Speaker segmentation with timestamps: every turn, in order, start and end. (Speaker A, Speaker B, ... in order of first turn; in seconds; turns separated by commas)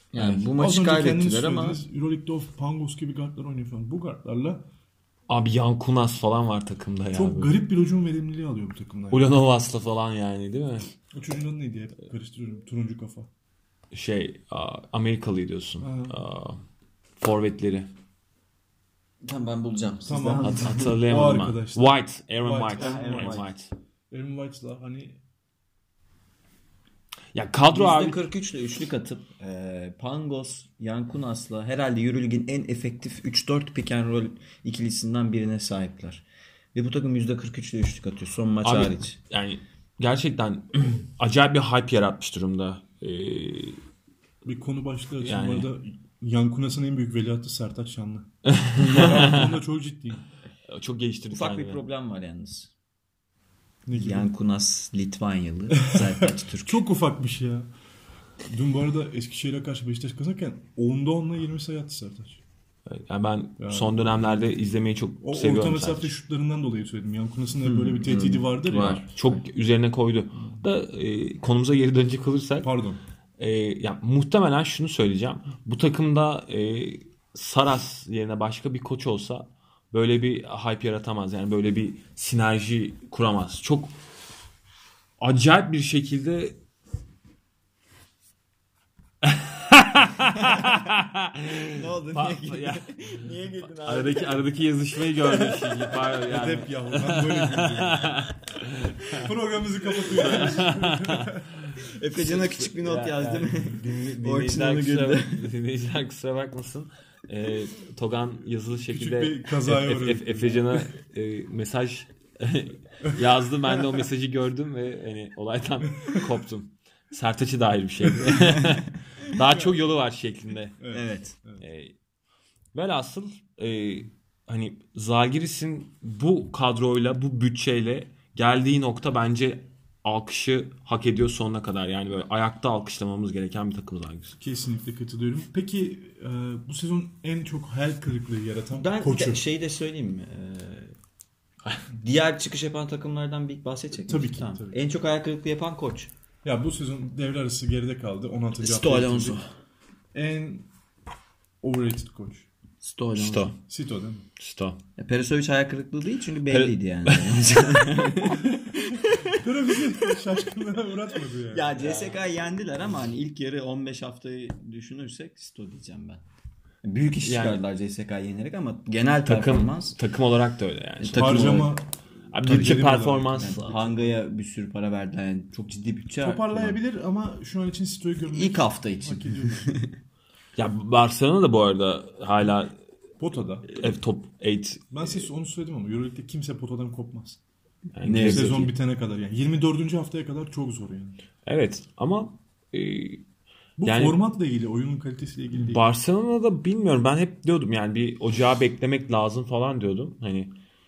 Speaker A: 0.1-1.8, Speaker B: 0.2-0.5, Speaker C: 0.5-4.7, Speaker B: 5.3-7.6, Speaker C: 7.1-9.3, Speaker B: 9.1-10.9, Speaker C: 11.1-13.3, Speaker B: 13.9-16.6, Speaker C: 15.8-16.2, Speaker B: 17.2-17.9, Speaker A: 19.2-21.0, Speaker C: 20.1-23.4, Speaker B: 20.4-23.7, Speaker A: 22.8-23.5, Speaker C: 24.1-25.2, Speaker B: 27.3-28.3, Speaker A: 27.7-39.1, Speaker B: 38.6-43.8, Speaker C: 44.4-50.2, Speaker B: 45.2-45.7, Speaker B: 48.5-49.6, Speaker B: 50.7-51.8, Speaker A: 51.3-52.7, Speaker C: 53.9-54.3, Speaker A: 53.9-56.8, Speaker C: 55.8-57.7, Speaker C: 58.5-62.4, Speaker B: 62.9-66.1, Speaker C: 63.6-64.5, Speaker C: 65.2-69.1, Speaker A: 67.6-69.4, Speaker B: 68.7-72.7, Speaker C: 72.6-73.0, Speaker B: 73.4-83.9, Speaker B: 85.2-86.6, Speaker B: 89.2-92.9, Speaker A: 90.4-90.8, Speaker A: 91.7-94.5, Speaker B: 93.7-99.3, Speaker A: 95.2-95.8, Speaker C: 96.2-98.2, Speaker C: 99.1-101.5, Speaker B: 100.1-120.8, Speaker A: 100.2-100.6, Speaker A: 101.8-105.5, Speaker C: 108.7-110.9, Speaker C: 118.1-118.8, Speaker C: 119.4-119.8, Speaker C: 120.8-121.6, Speaker A: 120.9-121.3, Speaker B: 121.6-121.9, Speaker B: 122.7-134.4, Speaker C: 134.4-139.4, Speaker A: 138.7-140.9, Speaker A: 141.9-146.1, Speaker C: 143.9-144.8, Speaker C: 146.4-149.4, Speaker A: 148.6-149.5, Speaker C: 150.1-150.7, Speaker C: 151.6-152.5, Speaker A: 152.8-153.5, Speaker B: 153.2-153.6, Speaker C: 153.7-154.3, Speaker B: 154.4-154.8, Speaker A: 155.0-159.4, Speaker B: 156.5-158.0, Speaker C: 158.5-162.0, Speaker A: 161.5-166.2, Speaker A: 166.8-170.0, Speaker B: 167.2-167.6, Speaker B: 169.2-171.7, Speaker A: 171.0-171.8, Speaker C: 171.2-171.9, Speaker B: 172.3-173.8, Speaker C: 172.4-173.8, Speaker A: 173.4-176.8, Speaker C: 176.2-179.8, Speaker A: 178.3-179.9, Speaker B: 180.6-182.8, Speaker C: 183.2-183.7, Speaker B: 183.7-185.2, Speaker C: 184.9-187.4, Speaker B: 187.9-188.6, Speaker A: 188.0-188.7, Speaker C: 188.2-191.2, Speaker B: 191.4-193.2, Speaker C: 193.8-195.8, Speaker B: 193.8-194.2, Speaker B: 195.6-200.5